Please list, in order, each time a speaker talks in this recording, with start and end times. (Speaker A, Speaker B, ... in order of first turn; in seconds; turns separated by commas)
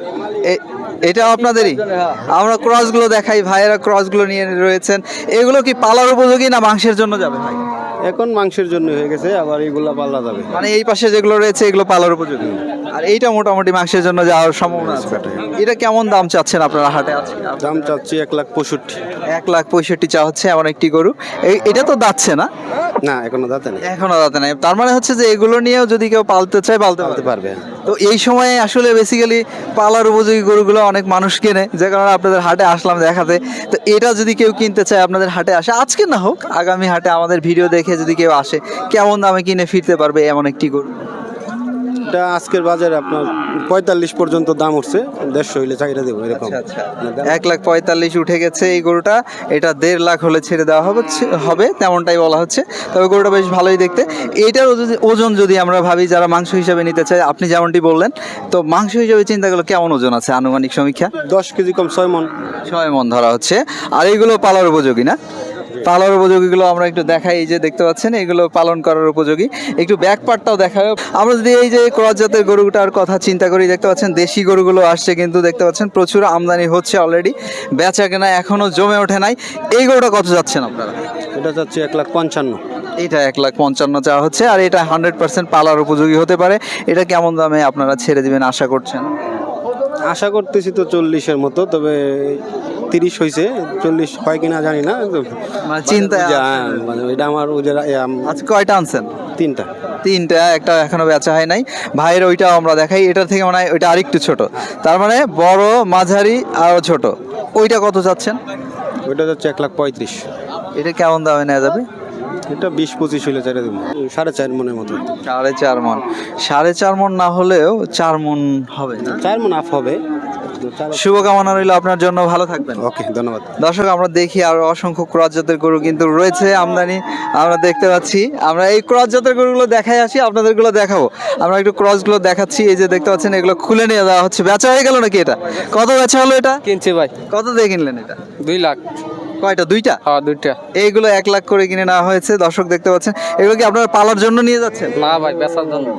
Speaker A: 0.4-7.6, Speaker B: 8.0-10.5, Speaker A: 10.5-18.0, Speaker B: 14.8-15.4, Speaker B: 17.6-19.0, Speaker A: 19.3-22.5, Speaker B: 23.0-23.8, Speaker A: 23.8-27.3, Speaker B: 27.0-27.6, Speaker A: 27.9-40.9, Speaker B: 42.1-47.2, Speaker A: 46.3-61.1, Speaker B: 61.3-62.3, Speaker A: 62.7-65.2, Speaker A: 65.8-81.0, Speaker B: 81.3-82.6, Speaker A: 83.0-89.1, Speaker B: 90.1-95.3, Speaker A: 95.7-96.6, Speaker B: 95.9-98.2, Speaker A: 98.3-99.1, Speaker B: 99.4-99.7, Speaker A: 100.0-108.4, Speaker B: 109.1-110.3, Speaker A: 110.8-111.8, Speaker B: 112.5-115.1, Speaker A: 115.2-119.2, Speaker B: 119.2-120.0, Speaker B: 120.5-121.0, Speaker A: 120.9-122.8, Speaker B: 122.8-123.5, Speaker A: 123.6-136.6, Speaker C: 136.7-137.1, Speaker A: 137.3-138.2, Speaker C: 138.4-138.8, Speaker A: 139.4-140.0, Speaker C: 140.1-140.6, Speaker A: 140.7-144.9, Speaker C: 145.0-145.9